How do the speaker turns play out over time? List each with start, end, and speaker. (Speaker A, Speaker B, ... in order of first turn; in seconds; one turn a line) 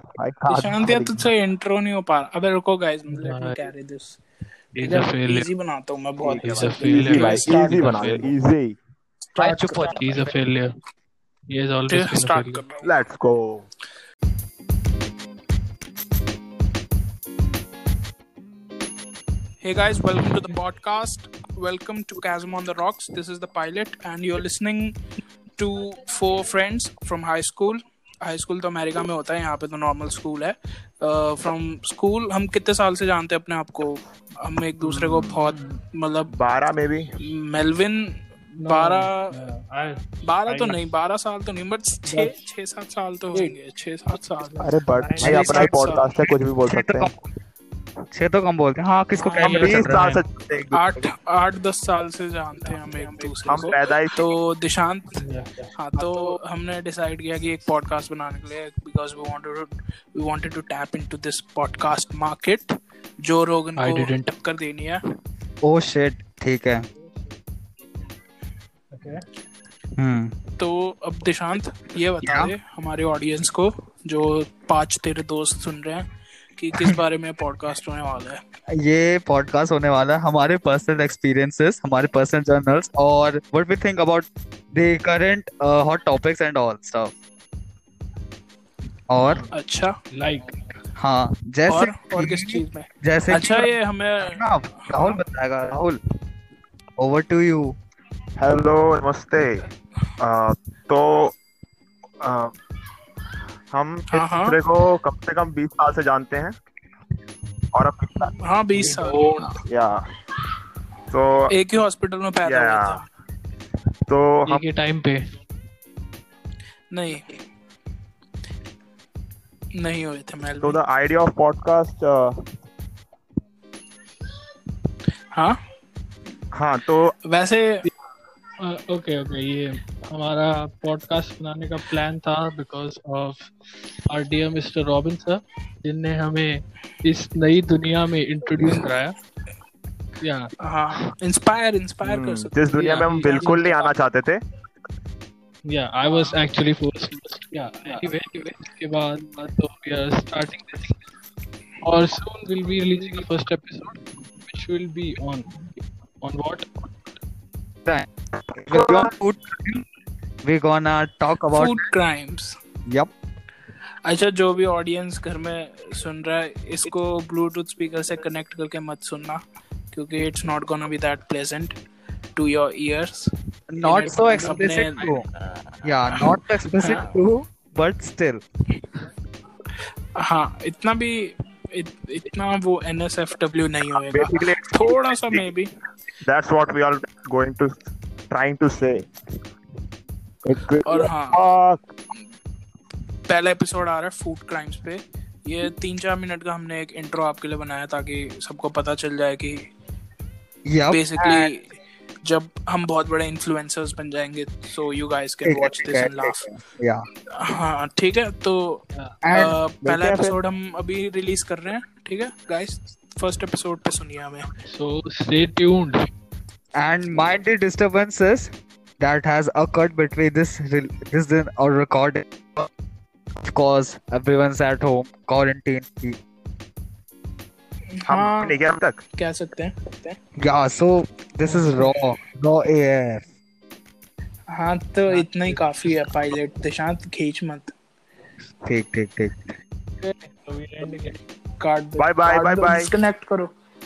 Speaker A: 0.2-1.2
Speaker B: 0.5-4.2
Speaker C: 3.1-3.5
Speaker C: 4.7-5.5
Speaker B: 4.8-8.0
Speaker A: 6.3-8.8
Speaker D: 6.3-6.7
Speaker C: 6.4-8.3
Speaker B: 9.3-9.9
Speaker D: 9.4-10.3
Speaker C: 9.5-10.7
Speaker C: 11.5-12.6
Speaker B: 11.9-12.9
Speaker A: 12.8-13.7
Speaker B: 19.6-25.0
Speaker B: 25.6-36.3
Speaker C: 35.4-35.8
Speaker A: 36.3-37.1
Speaker B: 37.3-39.3
Speaker C: 38.6-40.8
Speaker B: 40.2-44.6
Speaker C: 42.0-42.3
Speaker C: 44.5-45.6
Speaker A: 44.6-47.1
Speaker D: 45.2-45.8
Speaker B: 45.5-46.0
Speaker D: 46.6-47.1
Speaker D: 48.1-50.1
Speaker B: 49.2-49.8
Speaker C: 49.4-50.2
Speaker A: 49.4-51.1
Speaker B: 50.7-55.1
Speaker C: 52.6-53.6
Speaker A: 53.5-54.2
Speaker C: 55.2-56.3
Speaker B: 55.8-62.7
Speaker B: 63.2-65.0
Speaker C: 63.8-64.3
Speaker D: 65.6-66.8
Speaker C: 68.9-69.2
Speaker D: 70.0-70.3
Speaker B: 70.6-76.0
Speaker D: 72.2-72.5
Speaker B: 76.5-78.4
Speaker D: 78.7-87.1
Speaker D: 89.1-89.4
Speaker C: 89.2-89.5
Speaker B: 89.5-89.9
Speaker C: 90.1-90.5
Speaker D: 91.0-96.0
Speaker B: 91.7-95.2
Speaker D: 97.0-97.8
Speaker A: 98.4-99.6
Speaker A: 100.2-101.3
Speaker A: 102.2-102.5
Speaker A: 103.7-106.5
Speaker B: 104.1-104.6
Speaker A: 107.7-108.3
Speaker B: 108.2-109.5
Speaker C: 108.8-109.6
Speaker A: 109.7-110.0
Speaker A: 111.1-111.5
Speaker B: 111.5-113.1
Speaker A: 112.4-113.0
Speaker A: 114.1-114.6
Speaker C: 114.5-115.3
Speaker B: 116.9-117.2
Speaker B: 119.8-120.8
Speaker A: 120.6-122.3
Speaker A: 126.5-127.1
Speaker B: 127.2-127.8
Speaker C: 128.6-133.5
Speaker C: 134.1-139.2
Speaker C: 140.2-140.5
Speaker B: 140.6-143.5
Speaker A: 142.0-144.4
Speaker C: 142.7-143.9
Speaker C: 145.7-151.0
Speaker C: 151.8-155.6
Speaker C: 156.2-156.7
Speaker D: 158.6-159.8
Speaker A: 158.7-159.0
Speaker D: 160.4-161.8
Speaker B: 161.5-162.6
Speaker D: 162.9-163.1
Speaker B: 164.0-169.4
Speaker B: 169.9-171.7
Speaker B: 172.3-173.3
Speaker D: 173.7-175.3
Speaker B: 173.8-175.1
Speaker D: 175.8-178.4
Speaker B: 176.1-177.0
Speaker B: 180.2-185.7
Speaker A: 184.0-185.5
Speaker A: 186.2-189.1
Speaker A: 190.4-191.8
Speaker B: 190.8-191.4
Speaker B: 193.3-199.7
Speaker D: 200.7-201.5
Speaker B: 200.9-201.7
Speaker B: 202.2-206.4
Speaker D: 205.4-207.1
Speaker B: 207.3-214.4
Speaker D: 209.2-209.6
Speaker A: 209.8-210.3
Speaker C: 214.7-216.1
Speaker D: 216.7-222.7
Speaker D: 223.4-226.2
Speaker B: 227.9-228.6
Speaker A: 228.1-229.0
Speaker B: 229.2-230.2
Speaker D: 230.4-233.2
Speaker C: 231.4-231.8
Speaker B: 234.5-237.7
Speaker C: 235.1-235.9
Speaker D: 238.6-239.5
Speaker C: 240.0-241.2
Speaker B: 241.6-243.5
Speaker A: 242.0-242.9